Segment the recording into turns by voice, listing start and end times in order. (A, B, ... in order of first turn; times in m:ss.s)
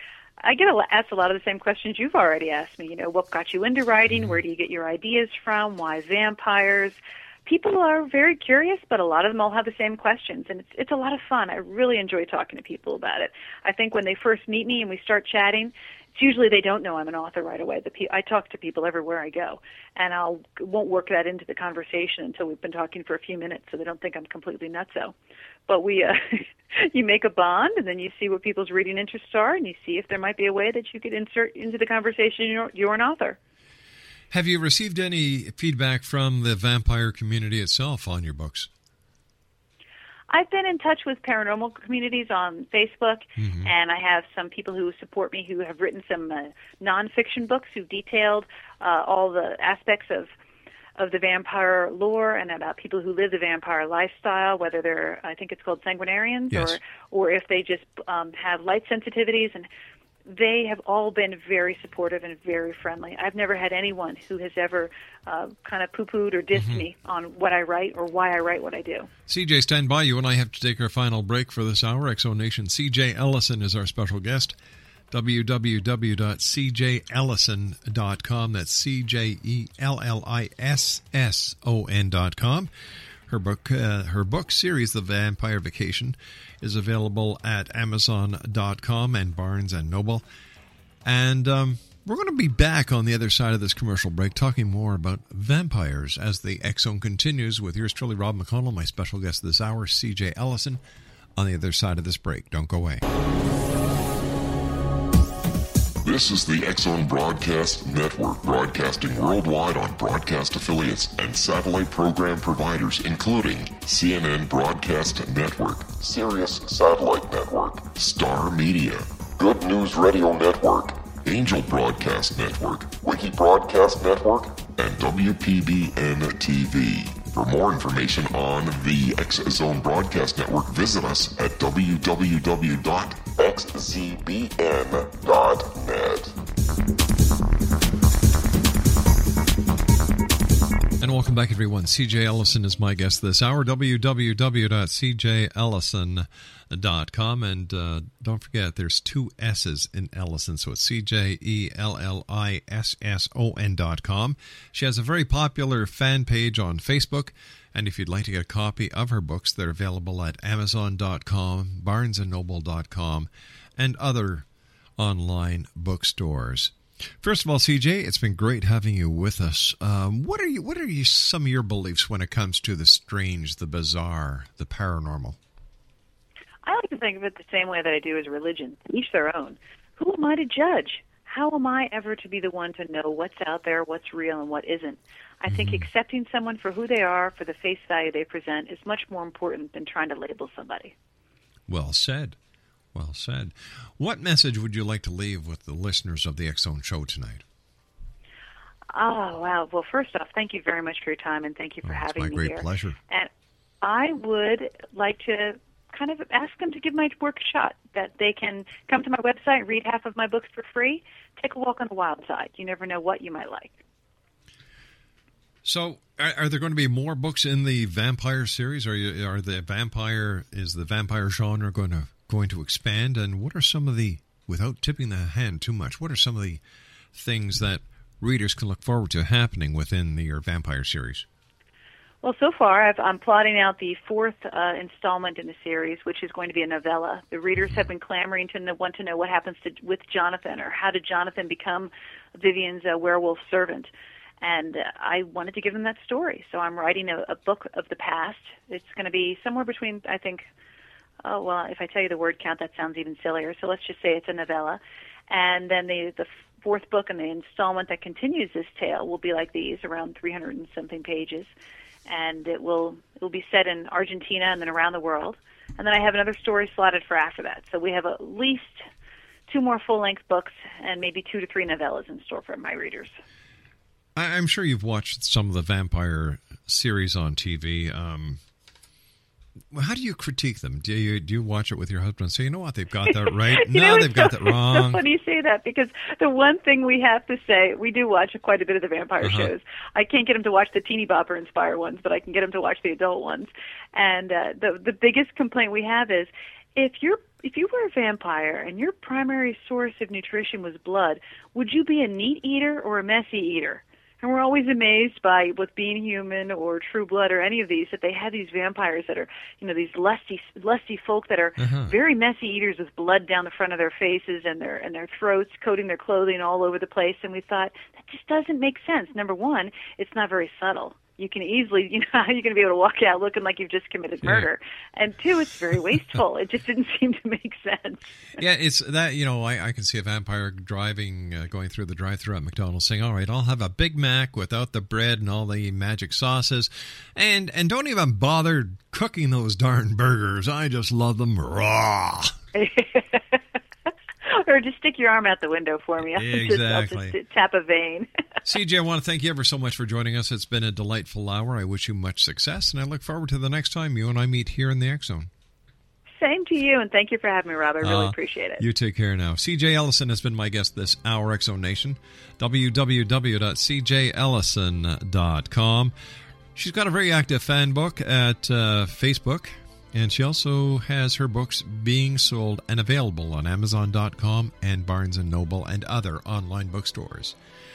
0:00.4-0:25.1 A
0:25.7-0:33.4 A
0:34.3-0:38.7 B
0:40.3-0:50.3 A
0:43.4-0:43.7 B
0:51.0-0:59.7 A
0:56.5-0:56.8 B
1:00.3-1:09.1 A
1:06.6-1:06.8 B
1:09.3-1:14.6 B
1:15.1-1:22.7 B
1:23.3-1:30.2 B
1:31.0-1:40.8 B
1:41.4-1:43.0 B
1:46.0-2:16.3 C
2:21.0-2:44.4 B
2:45.0-2:55.4 B
2:56.6-3:10.9 A
3:05.5-3:05.8 B
3:11.7-3:12.4 B
3:12.9-3:17.4 B
3:18.9-3:23.3 A
3:21.8-3:23.0 B
3:23.8-3:33.8 A
3:35.6-3:46.6 B
3:47.1-3:51.2 B
3:52.2-4:10.4 A
4:11.2-4:21.5 A
4:22.0-4:28.8 A
4:29.5-4:33.1 A
4:34.2-4:38.4 B
4:39.7-4:45.0 B
4:43.1-5:28.2 A
4:49.2-4:49.5 B
5:11.6-5:11.9 B
5:24.2-5:24.5 B
5:28.4-5:42.3 B
5:42.5-5:43.4 A
5:44.2-5:48.1 A
5:46.1-5:47.2 B
5:48.4-5:55.3 B
5:56.2-5:58.6 A
5:57.8-6:05.9 B
6:06.5-6:17.4 B